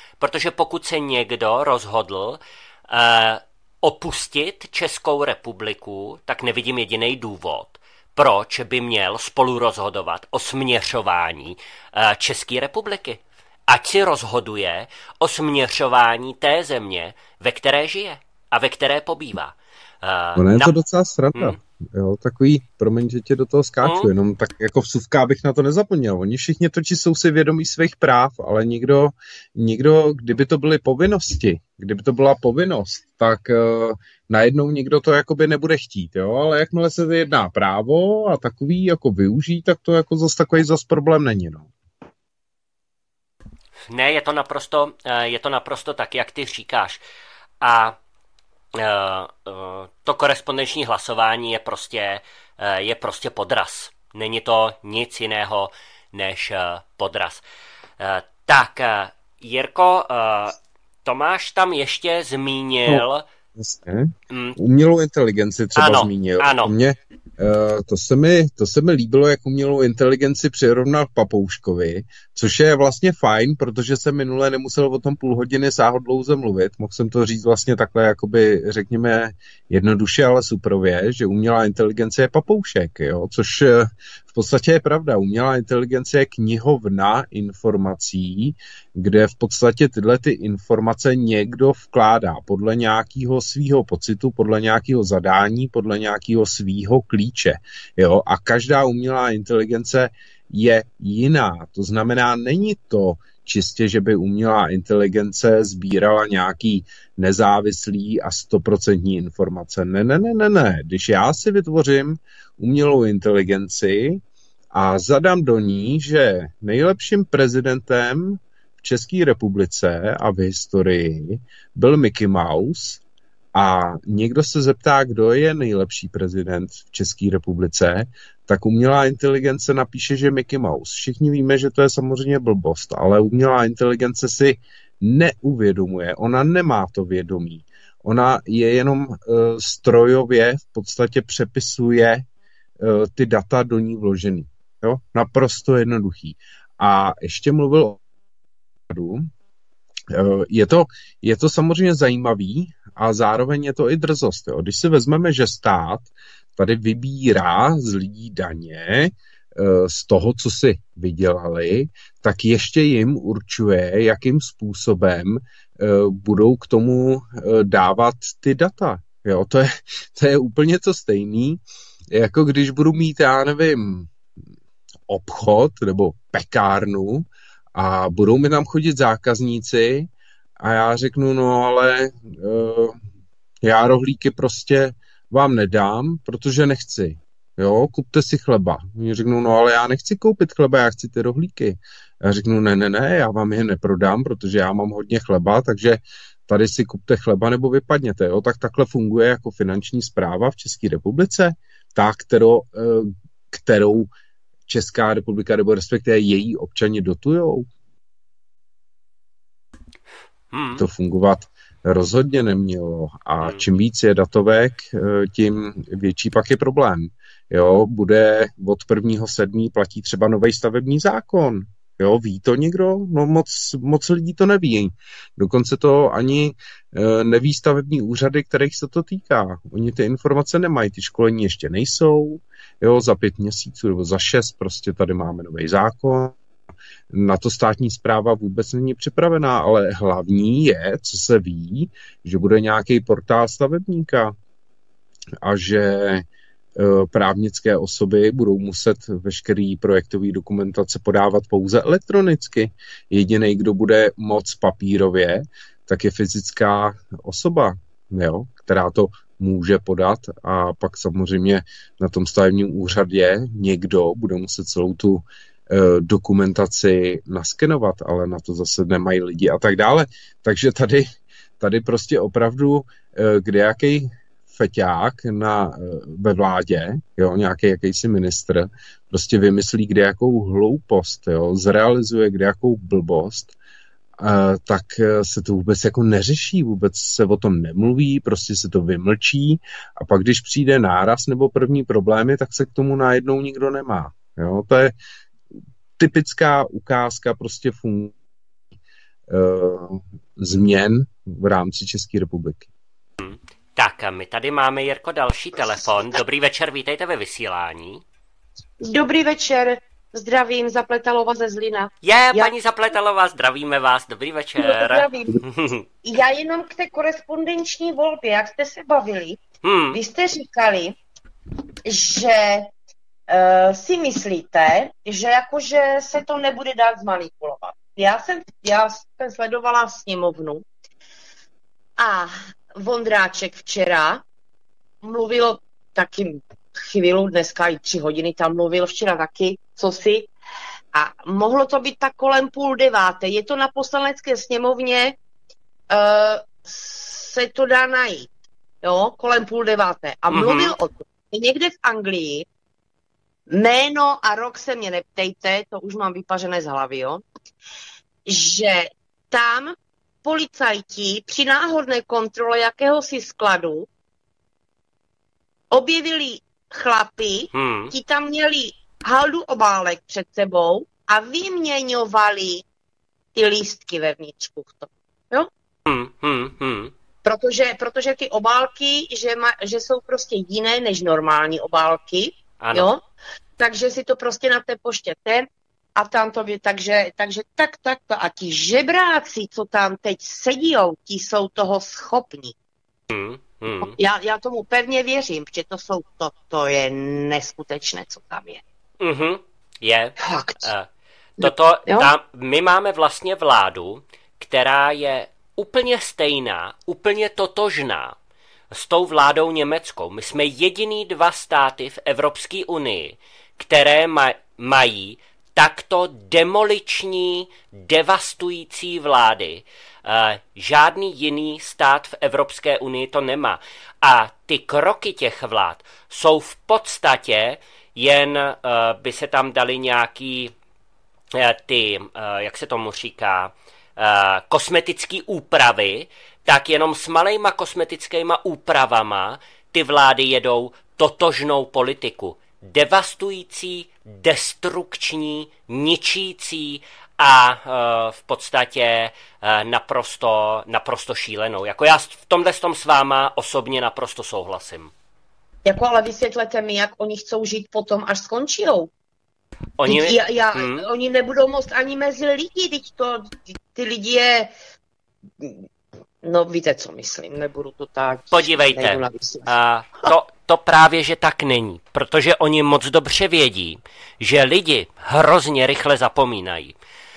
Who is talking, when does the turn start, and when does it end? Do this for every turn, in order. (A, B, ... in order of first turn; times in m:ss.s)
0:00.2-0:20.7 A
0:20.4-0:41.7 B
0:23.8-0:24.1 A
0:43.9-0:47.0 A
0:47.6-0:48.0 A
0:48.7-0:57.4 A
0:58.0-1:03.3 A
1:03.6-1:54.2 B
1:04.3-1:04.6 A
1:05.7-1:06.7 A
1:54.7-2:03.0 B
2:03.6-2:22.2 B
2:22.8-2:28.0 B
2:28.9-2:29.3 B
2:30.1-2:51.6 B
2:52.1-2:54.1 B
2:55.1-3:03.0 B
3:03.6-3:24.1 B
3:24.7-3:27.7 B
3:30.5-3:30.8 A
3:30.8-3:56.4 B
3:33.4-3:33.6 A
3:57.1-4:04.4 B
4:05.4-4:06.2 B
4:06.8-4:31.1 B
4:31.6-4:43.6 B
4:44.2-4:54.9 B
4:56.0-4:58.1 B
4:59.3-5:02.7 B
5:03.2-5:08.0 A
5:08.8-5:12.5 C
5:12.0-5:15.8 A
5:14.6-5:15.4 C
5:16.0-5:21.0 C
5:19.6-5:20.0 A
5:21.8-5:22.7 C
5:23.3-5:30.6 C
5:32.0-5:34.2 C
5:35.0-5:40.3 C
5:40.9-5:45.2 C
5:45.9-5:48.3 C
5:48.8-5:52.5 C
5:50.3-5:50.7 A
5:53.5-5:57.2 C
5:58.3-6:03.9 C
6:05.7-6:12.6 C
6:07.5-6:07.9 A
6:13.4-6:15.5 C
6:15.8-6:16.9 A
6:17.2-6:23.0 C
6:22.6-6:22.9 A
6:23.6-6:32.6 C
6:33.1-6:33.9 A
6:33.8-6:38.6 C
6:39.0-6:40.9 A
6:40.2-6:40.7 C
6:41.4-6:48.1 A
6:41.4-6:42.1 C
6:48.7-7:10.6 A
7:11.3-7:34.9 A
7:35.6-7:38.9 C
7:39.8-7:40.8 A
7:39.8-7:44.5 C
7:46.2-7:49.5 C
7:48.3-7:56.7 A